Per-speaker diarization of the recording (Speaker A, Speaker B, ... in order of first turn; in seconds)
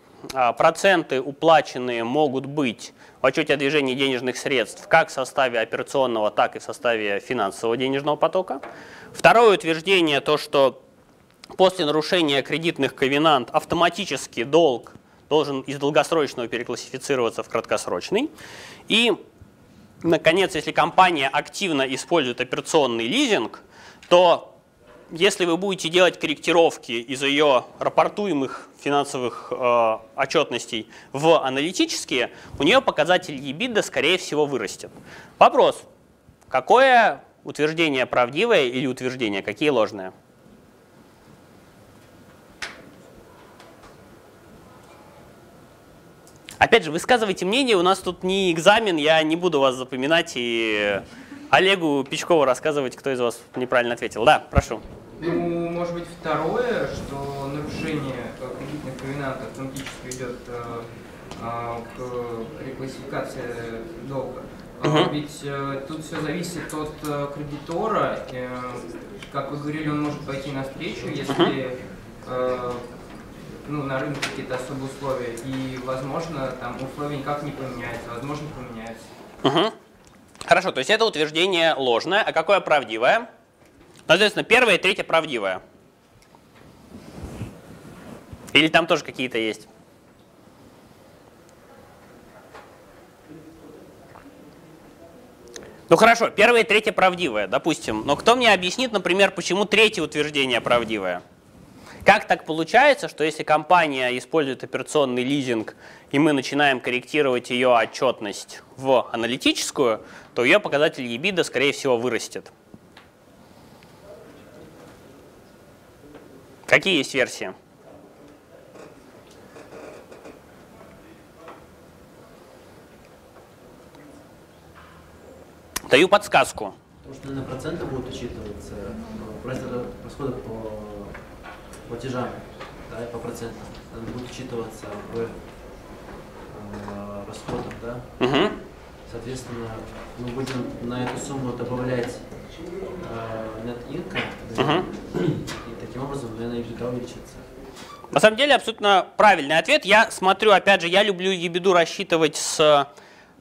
Speaker A: 0.3-8.6, 9.2-10.8, 11.6-18.3, 18.9-19.2, 20.0-24.5, 25.1-35.9, 36.5-40.1, 46.6-54.8, 64.8-65.1, 79.4-79.7, 80.5-83.3, 84.1-85.6, 88.5-89.7, 95.9-101.2, 102.0-112.5, 116.7-117.5, 125.9-126.8, 138.2-138.5, 144.6-144.8, 148.1-152.9
Speaker B: 55.2-73.0, 73.6-79.1
Speaker C: 127.0-138.3, 139.1-147.5